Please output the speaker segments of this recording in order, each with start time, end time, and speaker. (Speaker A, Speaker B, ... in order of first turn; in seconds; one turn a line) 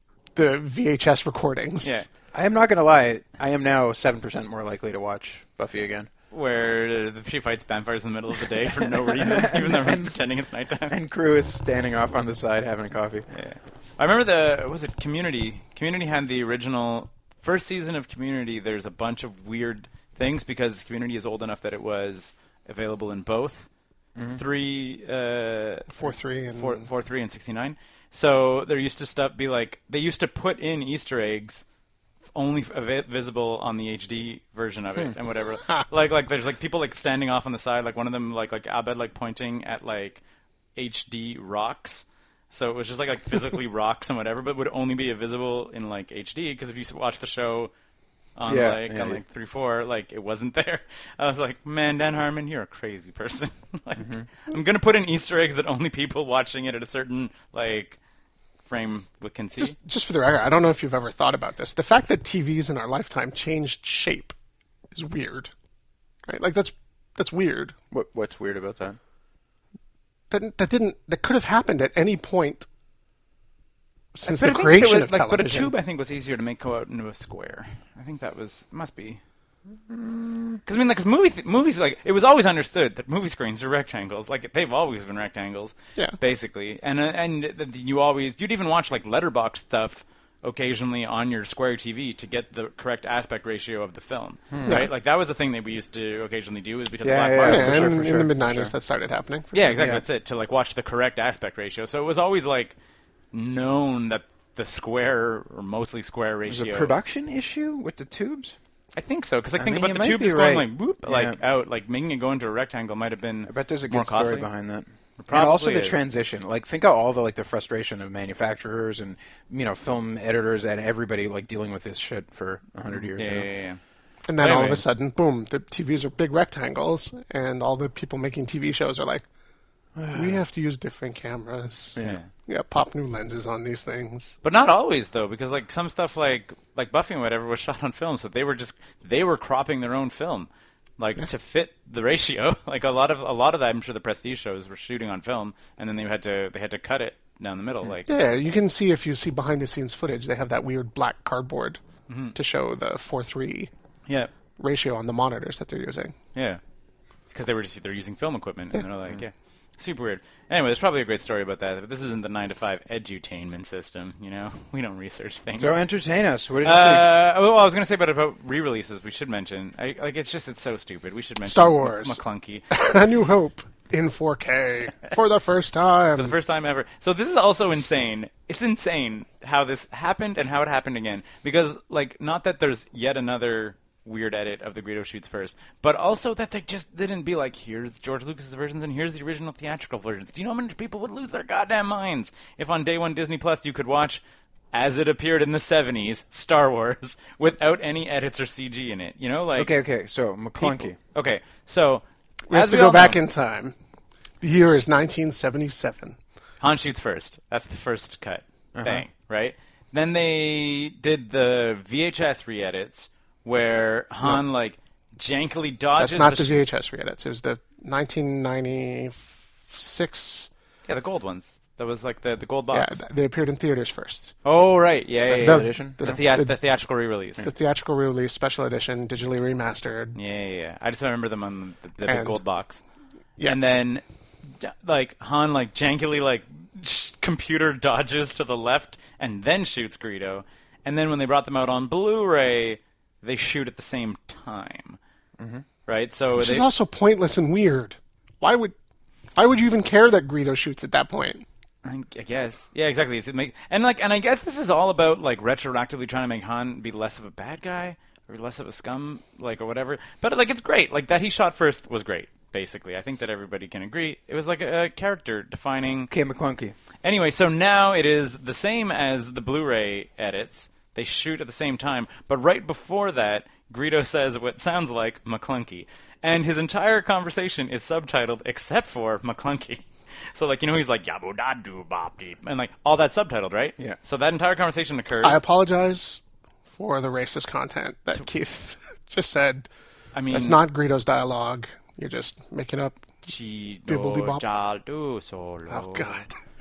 Speaker A: 0.3-2.0
Speaker B: 2.3-6.1
Speaker C: 6.3-10.9
Speaker B: 9.1-10.2
Speaker B: 10.9-13.3
Speaker C: 13.3-23.7
Speaker C: 24.3-31.6
Speaker A: 25.9-26.9
Speaker C: 32.3-40.2
Speaker C: 40.8-47.7
Speaker C: 48.4-58.0
Speaker B: 48.5-49.2
Speaker B: 54.0-54.2
Speaker C: 58.6-59.8
Speaker A: 59.6-64.3
Speaker A: 64.9-65.5
Speaker A: 66.3-67.8
Speaker B: 67.9-69.0
Speaker A: 70.3-72.7
Speaker A: 74.2-75.7
Speaker C: 74.2-79.2
Speaker B: 79.9-80.6
Speaker C: 80.7-98.1
Speaker B: 94.5-94.8
Speaker A: 94.7-94.9
Speaker B: 97.0-98.7
Speaker A: 97.4-99.6
Speaker C: 99.5-102.8
Speaker B: 99.7-100.0
Speaker C: 103.3-106.9
Speaker B: 106.5-108.6
Speaker C: 109.0-114.5
Speaker B: 109.6-111.4
Speaker B: 113.5-123.5
Speaker C: 115.2-116.0
Speaker C: 122.9-123.8
Speaker A: 124.3-129.2
Speaker C: 124.4-124.8
Speaker B: 130.0-130.4
Speaker A: 130.1-134.4
Speaker C: 132.0-132.3
Speaker C: 134.4-148.4
Speaker A: 148.1-151.8
Speaker C: 152.1-152.3
Speaker A: 152.3-153.7
Speaker C: 154.1-154.3
Speaker A: 154.6-156.2
Speaker C: 156.3-156.6
Speaker C: 157.3-165.8
Speaker B: 165.6-167.1
Speaker C: 166.6-172.7
Speaker A: 171.4-176.3
Speaker C: 176.2-194.2
Speaker C: 194.7-199.7
Speaker B: 199.6-201.0
Speaker C: 200.6-203.2
Speaker A: 202.5-203.8
Speaker A: 204.4-206.2
Speaker C: 206.6-216.6
Speaker B: 208.8-209.1
Speaker A: 216.0-220.5
Speaker C: 220.9-223.0
Speaker A: 222.7-224.3
Speaker C: 224.4-227.5
Speaker B: 225.2-226.2
Speaker A: 225.3-226.6
Speaker A: 227.4-230.2
Speaker C: 230.2-232.8
Speaker A: 232.1-232.4
Speaker C: 233.4-245.0
Speaker B: 245.4-245.7
Speaker C: 245.9-246.7
Speaker A: 246.3-248.7
Speaker A: 249.4-251.5
Speaker C: 251.8-266.1
Speaker B: 266.1-266.8
Speaker C: 267.0-285.4
Speaker A: 285.2-289.7
Speaker C: 290.1-290.6
Speaker A: 290.3-293.1
Speaker C: 293.3-296.2
Speaker A: 293.9-294.4
Speaker A: 295.7-296.4